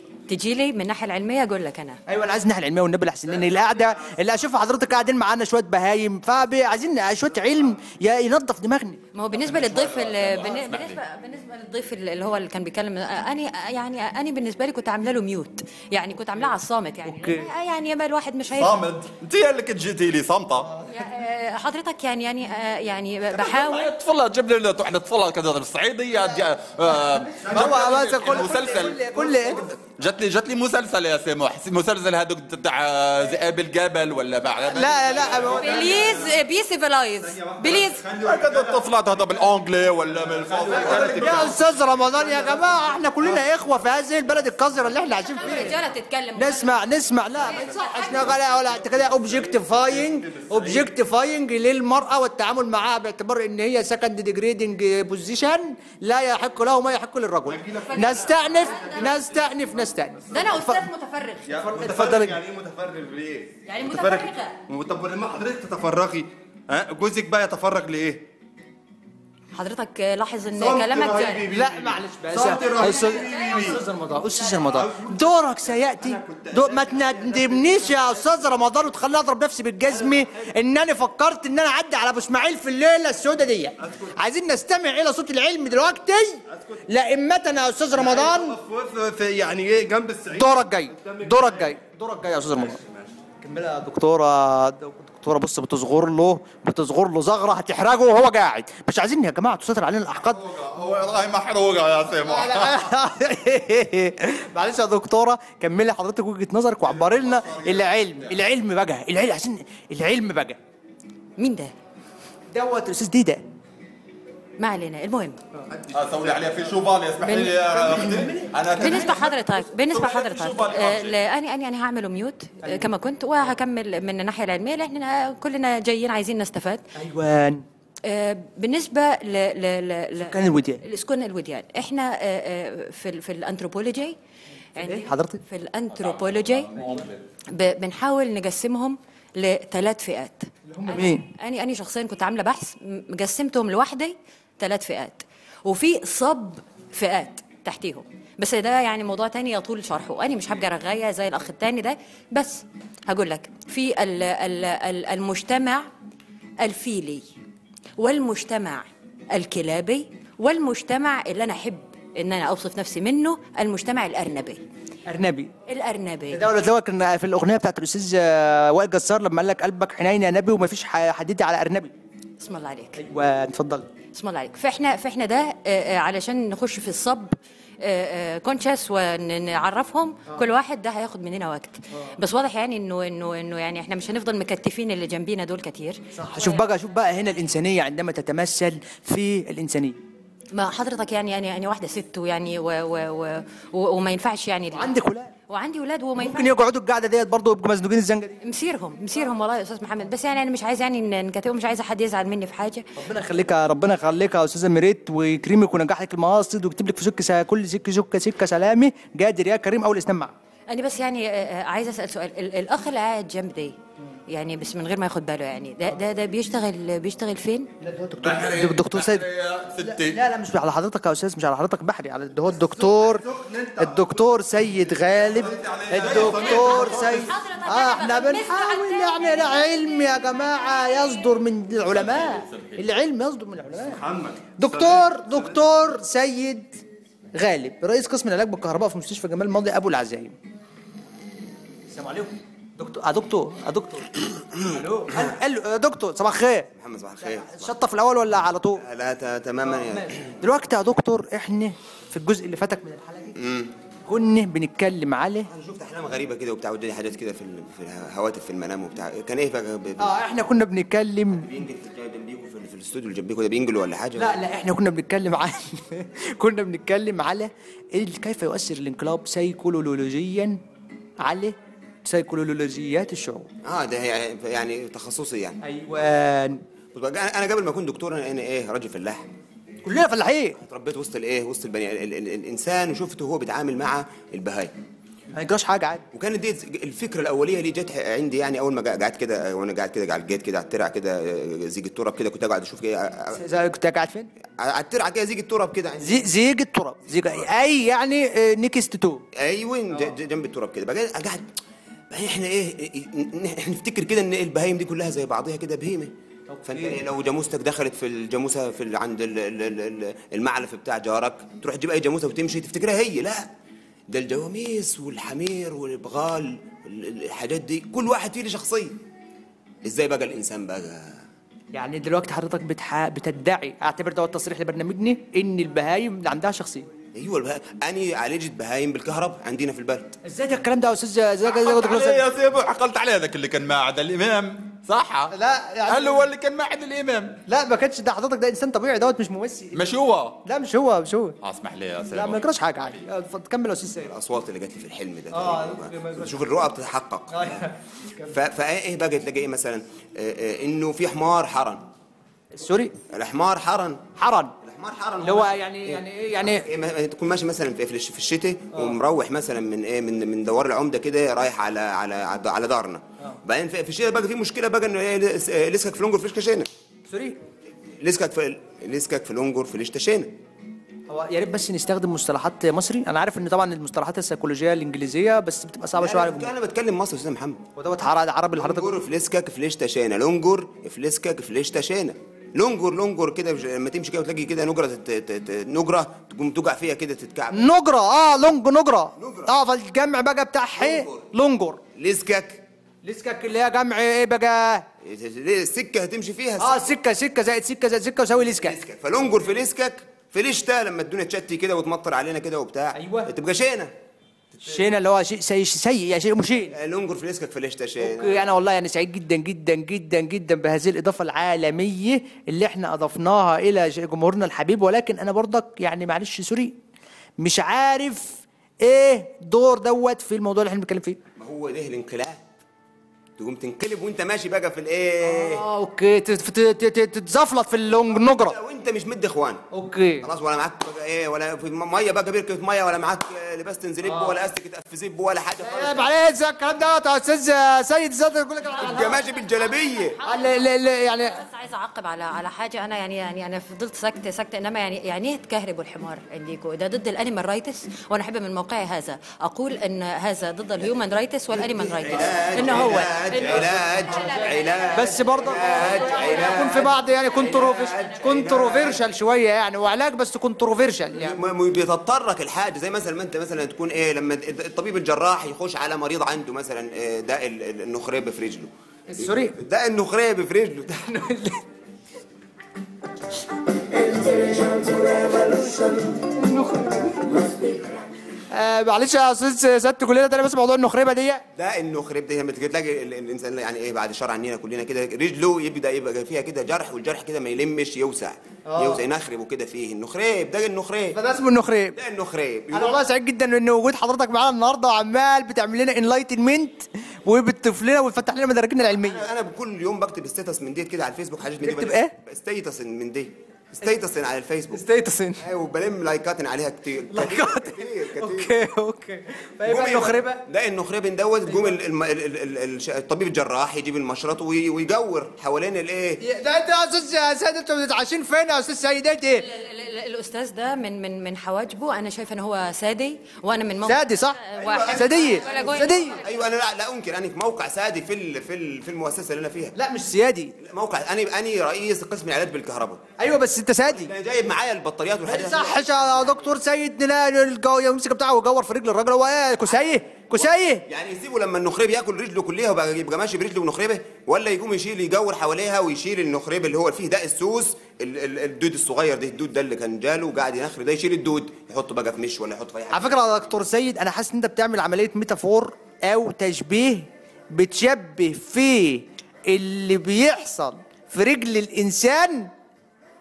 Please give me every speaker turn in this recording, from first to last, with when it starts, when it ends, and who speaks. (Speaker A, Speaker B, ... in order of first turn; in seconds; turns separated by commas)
Speaker A: 0.3-2.0, Speaker B: 2.1-9.0, Speaker A: 9.1-18.8, Speaker C: 9.3-11.0, Speaker B: 17.0-17.5, Speaker C: 18.5-20.7, Speaker A: 20.9-23.9, Speaker C: 23.3-35.5, Speaker D: 27.4-29.7, Speaker B: 27.4-29.6, Speaker B: 34.7-36.0, Speaker D: 34.9-36.4, Speaker A: 35.6-38.0, Speaker D: 37.2-38.8, Speaker C: 38.2-41.5, Speaker D: 40.1-43.5, Speaker B: 40.7-45.8, Speaker A: 45.3-46.7, Speaker B: 46.3-60.8, Speaker A: 47.4-48.3, Speaker D: 47.4-50.9, Speaker D: 57.5-59.6, Speaker A: 57.7-59.1, Speaker D: 60.2-60.6, Speaker A: 60.3-61.6, Speaker D: 61.5-68.3, Speaker B: 61.6-62.4, Speaker A: 63.7-64.6, Speaker A: 69.5-71.4, Speaker D: 70.5-73.8, Speaker B: 71.4-88.6, Speaker A: 72.5-73.7, Speaker D: 74.6-78.4, Speaker D: 79.9-80.2, Speaker D: 83.8-84.1, Speaker D: 86.5-86.8, Speaker D: 87.9-91.8, Speaker B: 90.3-92.8, Speaker D: 92.6-93.1, Speaker B: 93.4-100.4, Speaker C: 100.3-102.8, Speaker B: 102.2-110.6, Speaker A: 111.4-111.7, Speaker B: 112.5-113.4, Speaker A: 114.6-115.4, Speaker D: 115.7-116.6, Speaker C: 115.9-121.2, Speaker A: 117.2-118.2, Speaker B: 118.2-119.3, Speaker A: 118.7-126.8, Speaker B: 122.6-122.9, Speaker B: 126.9-127.6, Speaker A: 128.0-134.2, Speaker B: 130.2-130.8, Speaker A: 134.8-136.7, Speaker B: 134.8-135.4, Speaker C: 135.9-137.2, Speaker A: 137.5-155.9, Speaker B: 140.7-141.3, Speaker A: 156.6-157.2, Speaker A: 158.0-164.6, Speaker B: 165.1-165.5, Speaker A: 165.7-166.5, Speaker B: 166.3-171.9, Speaker A: 172.4-173.0, Speaker B: 172.9-173.9, Speaker A: 174.1-186.6, Speaker B: 186.1-190.0, Speaker A: 190.5-194.9, Speaker B: 194.7-195.3, Speaker A: 195.5-196.5, Speaker B: 196.2-198.4, Speaker A: 198.4-202.8, Speaker B: 202.9-210.3, Speaker A: 210.7-213.8, Speaker A: 214.3-217.7, Speaker B: 217.8-219.3, Speaker C: 218.2-220.2, Speaker B: 219.8-223.2, Speaker D: 222.5-227.3, Speaker B: 223.8-234.0, Speaker C: 225.5-227.0, Speaker A: 226.4-231.2, Speaker C: 231.9-232.8, Speaker D: 233.8-235.6, Speaker B: 234.6-236.8, Speaker B: 237.3-240.3, Speaker B: 241.9-246.7, Speaker E: 246.7-247.7, Speaker B: 247.2-248.8, Speaker E: 248.8-250.3, Speaker B: 249.6-253.4, Speaker E: 253.3-253.7, Speaker B: 254.1-255.5, Speaker E: 255.5-260.1, Speaker B: 260.0-261.5, Speaker E: 261.3-264.4, Speaker B: 264.2-270.6, Speaker B: 271.2-273.5, Speaker E: 273.6-275.6, Speaker B: 275.6-276.6, Speaker E: 276.9-279.3, Speaker B: 279.8-280.6, Speaker E: 280.6-284.7, Speaker B: 285.3-286.0, Speaker E: 286.1-293.4, Speaker B: 293.3-294.3, Speaker E: 294.6-296.2, Speaker B: 296.0-299.2, Speaker E: 299.3-301.5, Speaker E: 302.1-306.1, Speaker B: 306.5-307.0, Speaker E: 306.6-313.5, Speaker E: 314.1-319.0, Speaker E: 319.8-321.2, Speaker B: 321.7-326.9, Speaker E: 327.1-330.1, Speaker B: 330.2-332.2, Speaker C: 331.4-335.3, Speaker B: 335.3-336.3, Speaker C: 335.9-337.4, Speaker B: 337.5-339.9, Speaker C: 339.7-340.4, Speaker B: 340.4-341.4, Speaker C: 341.4-342.4, Speaker B: 342.1-344.1, Speaker E: 344.0-347.6, Speaker B: 345.3-346.3, Speaker B: 347.3-347.7, Speaker E: 348.2-351.9, Speaker B: 352.5-352.9, Speaker E: 353.1-354.1, Speaker B: 354.1-354.5, Speaker E: 354.6-366.7, Speaker B: 355.2-356.7, Speaker B: 367.1-367.4, Speaker E: 368.0-370.4, Speaker B: 371.1-376.5, Speaker E: 375.9-377.6, Speaker B: 377.8-379.0, Speaker E: 378.6-387.7, Speaker B: 387.5-391.8, Speaker E: 389.2-389.5, Speaker E: 390.8-391.2, Speaker E: 391.9-392.6, Speaker B: 393.0-394.9, Speaker E: 395.0-396.8, Speaker B: 396.6-398.8, Speaker E: 398.4-403.9, Speaker B: 402.9-403.3, Speaker B: 404.6-406.8, Speaker E: 406.7-408.4, Speaker B: 408.0-416.8, Speaker B: 417.4-421.2, Speaker E: 421.4-422.4, Speaker E: 423.4-425.6, Speaker B: 425.2-428.6, Speaker E: 428.1-429.6, Speaker B: 429.7-430.2, Speaker E: 430.2-436.1, Speaker B: 434.0-434.4, Speaker B: 435.6-439.2, Speaker E: 438.8-440.2, Speaker A: 438.8-456.7, Speaker B: 440.2-441.4, Speaker E: 451.6-459.0, Speaker B: 452.4-453.1, Speaker B: 454.2-461.4, Speaker E: 461.1-471.1, Speaker B: 469.1-469.6, Speaker B: 471.0-471.6, Speaker F: 473.9-477.9, Speaker B: 476.5-476.8, Speaker B: 478.5-481.4, Speaker E: 481.5-491.2, Speaker B: 488.7-489.0, Speaker B: 491.1-492.0, Speaker E: 491.9-493.0, Speaker B: 492.7-499.2, Speaker E: 499.0-504.8, Speaker B: 501.6-502.1, Speaker B: 504.7-505.4, Speaker E: 505.4-508.5, Speaker B: 507.1-510.4, Speaker E: 509.6-516.2, Speaker B: 516.2-519.5, Speaker A: 519.4-526.2, Speaker B: 523.8-526.2, Speaker E: 524.5-529.8, Speaker B: 529.8-530.5, Speaker E: 530.6-533.0, Speaker B: 533.2-534.1, Speaker E: 533.8-536.2, Speaker B: 535.2-540.9, Speaker E: 540.9-553.2, Speaker B: 552.9-562.5